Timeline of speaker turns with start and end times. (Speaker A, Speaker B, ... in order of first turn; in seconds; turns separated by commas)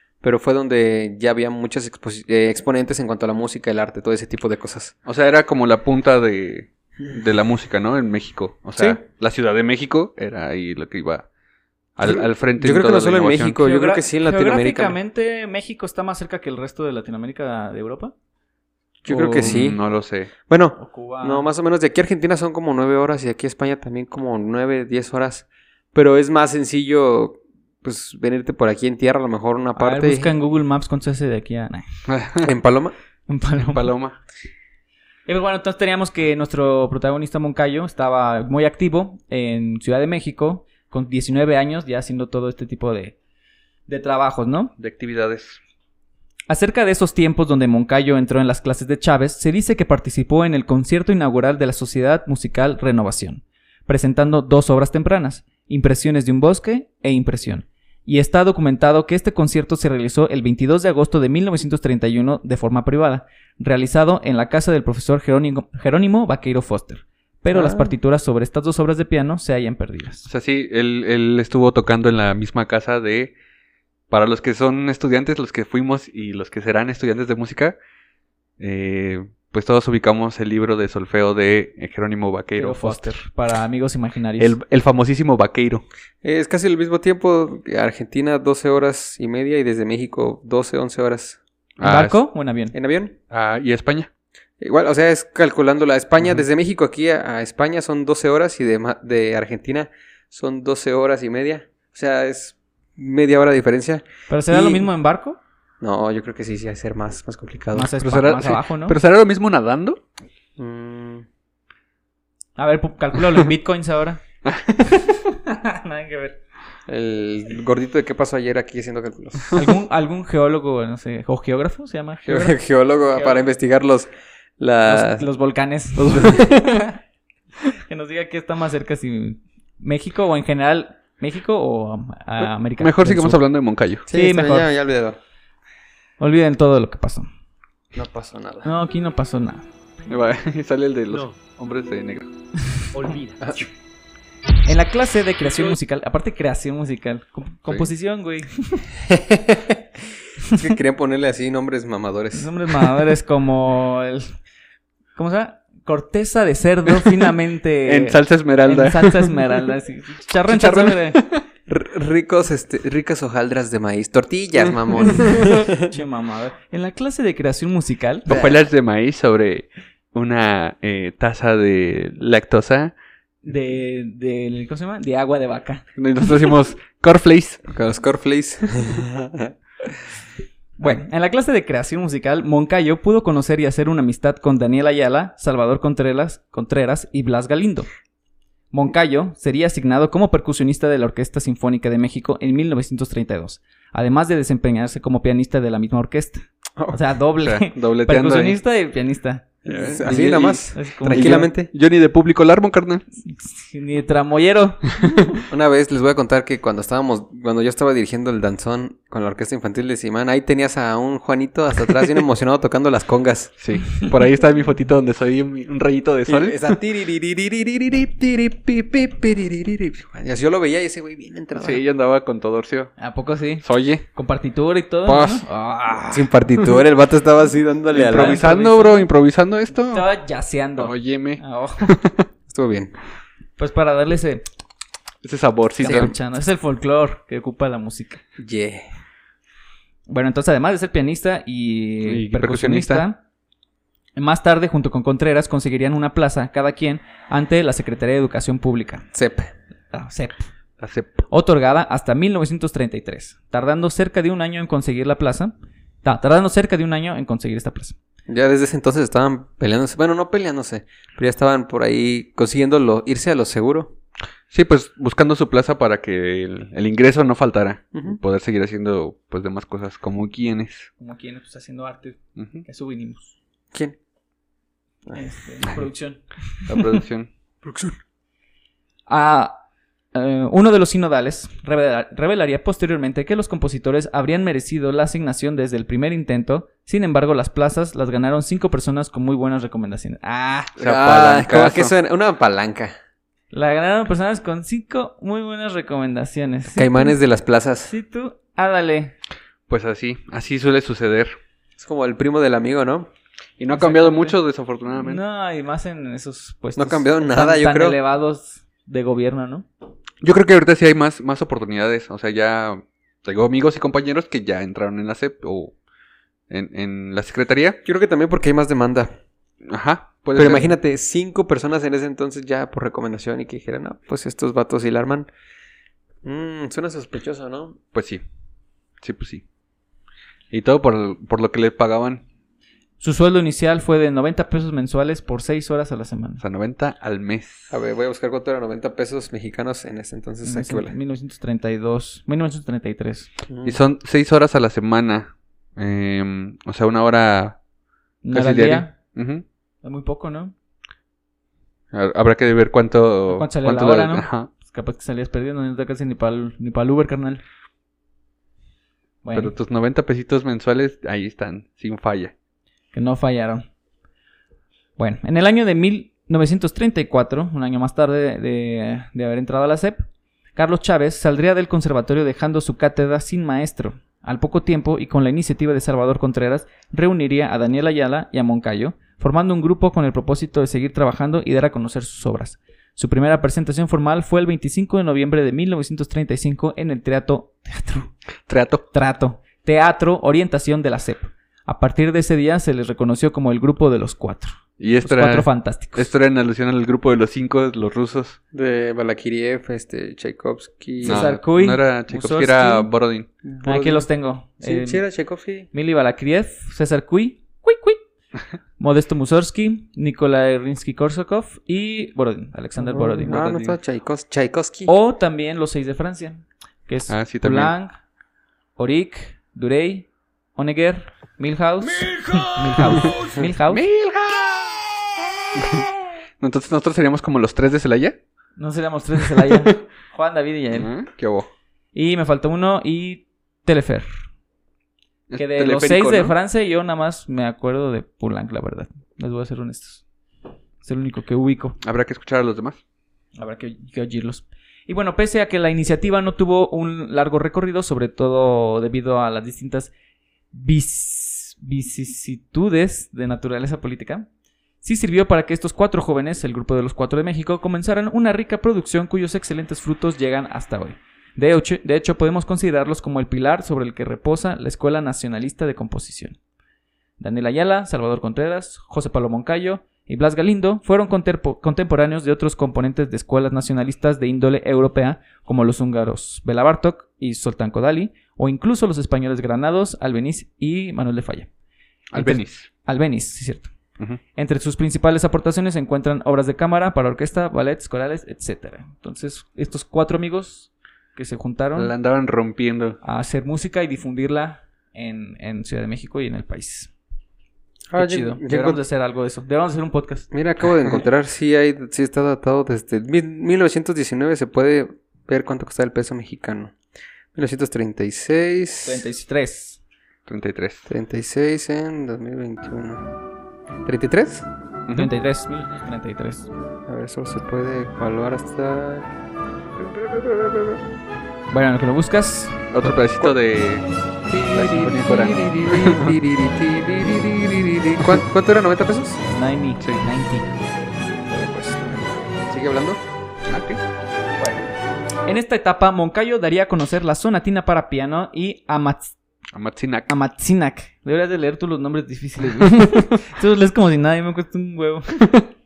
Speaker A: 0.2-4.9, Speaker B: 5.0-11.2, Speaker B: 12.0-13.6, Speaker A: 12.1-15.0, Speaker C: 13.6-18.1, Speaker A: 19.0-19.8, Speaker B: 19.1-20.3, Speaker A: 20.5-30.3, Speaker C: 20.7-21.5, Speaker C: 29.8-32.0, Speaker B: 32.1-32.5, Speaker A: 32.4-32.9, Speaker C: 33.3-33.9, Speaker B: 33.6-34.2, Speaker C: 35.3-43.1, Speaker C: 43.9-44.7, Speaker B: 44.8-45.6, Speaker C: 46.5-70.3, Speaker A: 67.5-67.9, Speaker B: 70.2-73.3, Speaker B: 74.1-77.8, Speaker B: 78.6-83.2, Speaker C: 82.5-84.5, Speaker B: 84.4-85.8, Speaker A: 86.2-91.4, Speaker B: 91.8-92.2, Speaker C: 91.8-92.7, Speaker A: 92.7-93.2, Speaker B: 93.3-94.1, Speaker A: 94.6-104.9, Speaker C: 104.3-105.4, Speaker A: 105.8-107.9, Speaker C: 107.7-109.0, Speaker B: 108.0-110.0, Speaker A: 110.6-111.3, Speaker C: 112.6-114.2, Speaker B: 114.5-115.0, Speaker C: 115.1-116.4, Speaker A: 116.9-119.6, Speaker C: 119.5-122.6, Speaker A: 122.2-124.1, Speaker C: 123.1-123.4, Speaker A: 124.6-125.2, Speaker C: 124.8-126.9, Speaker B: 126.1-126.4, Speaker A: 126.1-126.8, Speaker C: 127.7-133.4, Speaker B: 132.8-134.1, Speaker A: 134.1-135.2, Speaker C: 134.1-134.7, Speaker C: 136.2-137.3, Speaker A: 137.9-138.7, Speaker C: 138.6-139.7, Speaker B: 140.1-142.3, Speaker C: 142.8-143.2, Speaker C: 144.6-148.9, Speaker A: 149.1-149.8, Speaker A: 150.5-152.5, Speaker C: 152.3-154.3, Speaker C: 155.2-161.2, Speaker B: 157.8-159.4, Speaker B: 160.5-161.4, Speaker A: 161.7-165.9, Speaker C: 165.3-168.3, Speaker A: 168.3-168.6, Speaker B: 168.3-172.9, Speaker C: 173.4-176.3, Speaker B: 176.0-177.6, Speaker A: 177.7-179.9, Speaker C: 180.8-187.9, Speaker C: 188.7-199.5, Speaker B: 197.4-198.6, Speaker A: 199.6-201.7, Speaker B: 199.7-203.0, Speaker C: 200.7-201.5, Speaker C: 203.2-205.1, Speaker A: 205.5-213.5, Speaker B: 213.6-216.8, Speaker A: 216.3-221.8, Speaker B: 221.5-222.9, Speaker C: 223.0-226.3, Speaker B: 223.6-224.0, Speaker B: 225.1-225.4, Speaker A: 226.1-228.4, Speaker C: 227.9-229.0, Speaker B: 228.0-230.1, Speaker C: 229.9-231.9, Speaker B: 230.8-232.2, Speaker A: 232.5-232.9, Speaker C: 233.6-234.4, Speaker B: 235.2-236.1, Speaker C: 235.8-238.2, Speaker A: 235.8-236.1, Speaker A: 238.4-238.8, Speaker C: 240.1-243.2, Speaker B: 242.1-243.1, Speaker C: 244.2-249.0, Speaker A: 249.1-249.5, Speaker C: 249.9-250.4, Speaker B: 250.8-251.2, Speaker C: 251.3-257.9, Speaker A: 258.3-263.9, Speaker B: 264.5-270.9, Speaker C: 271.0-273.3, Speaker B: 272.4-272.6, Speaker C: 275.1-276.7, Speaker B: 276.7-277.3, Speaker A: 277.6-278.0, Speaker C: 279.1-279.6, Speaker C: 280.1-290.7, Speaker B: 290.8-291.9, Speaker A: 290.8-292.9, Speaker C: 293.5-297.1, Speaker A: 296.7-297.9, Speaker C: 297.9-299.1, Speaker B: 299.7-301.3, Speaker A: 301.8-303.1, Speaker B: 303.6-305.2, Speaker C: 303.7-304.3, Speaker C: 304.9-309.6, Speaker A: 306.8-308.0, Speaker B: 310.2-315.7, Speaker B: 316.5-317.8, Speaker A: 317.8-319.1, Speaker B: 319.7-320.7, Speaker A: 320.3-325.3, Speaker A: 326.2-327.8, Speaker B: 327.9-328.2, Speaker B: 329.0-329.4, Speaker B: 330.5-332.2, Speaker C: 333.0-336.4, Speaker B: 336.4-337.7, Speaker A: 337.7-340.9, Speaker C: 340.4-343.3, Speaker A: 343.5-343.8, Speaker B: 343.6-347.6, Speaker C: 348.2-348.9, Speaker B: 348.3-349.4, Speaker C: 349.8-350.5, Speaker B: 351.9-354.5, Speaker C: 353.3-357.4, Speaker C: 359.2-359.5, Speaker B: 359.3-362.3, Speaker C: 362.9-363.6, Speaker C: 365.0-370.0, Speaker C: 370.6-388.1, Speaker B: 388.5-388.8, Speaker C: 388.9-396.1, Speaker B: 394.8-398.4, Speaker A: 398.5-401.3, Speaker C: 401.0-402.9, Speaker B: 401.0-403.3, Speaker A: 403.4-404.1, Speaker C: 403.6-405.0, Speaker A: 404.6-405.7, Speaker C: 405.7-408.0, Speaker C: 408.8-413.4, Speaker A: 412.9-414.9, Speaker B: 413.3-413.7, Speaker C: 414.9-417.9, Speaker B: 417.1-417.7, Speaker C: 418.8-423.8, Speaker B: 422.0-423.2, Speaker B: 423.7-424.8, Speaker B: 425.5-425.9, Speaker B: 426.4-428.2, Speaker C: 428.6-430.9, Speaker B: 430.7-431.5, Speaker C: 431.9-434.1, Speaker B: 435.3-436.3, Speaker C: 435.4-440.0, Speaker C: 440.8-441.8, Speaker B: 441.8-442.8, Speaker C: 443.4-449.9, Speaker C: 450.5-454.3, Speaker C: 454.8-466.4, Speaker C: 467.2-481.5, Speaker B: 482.1-482.7, Speaker C: 482.1-483.7, Speaker C: 484.4-491.9, Speaker B: 491.8-493.0, Speaker C: 493.0-496.9, Speaker A: 497.9-498.8, Speaker C: 497.9-500.3, Speaker A: 500.3-506.7, Speaker A: 507.3-509.0, Speaker C: 508.8-509.8, Speaker B: 510.3-510.9, Speaker A: 510.9-513.1, Speaker A: 513.8-514.5, Speaker C: 514.9-516.5, Speaker A: 516.9-519.1, Speaker A: 519.8-520.8, Speaker C: 521.5-522.7, Speaker B: 522.7-523.9, Speaker A: 524.3-529.2, Speaker B: 524.5-526.1, Speaker C: 529.3-530.5, Speaker C: 531.3-532.0, Speaker A: 532.5-533.0, Speaker B: 533.5-533.8, Speaker C: 535.3-539.1, Speaker B: 539.5-540.1, Speaker C: 540.1-545.4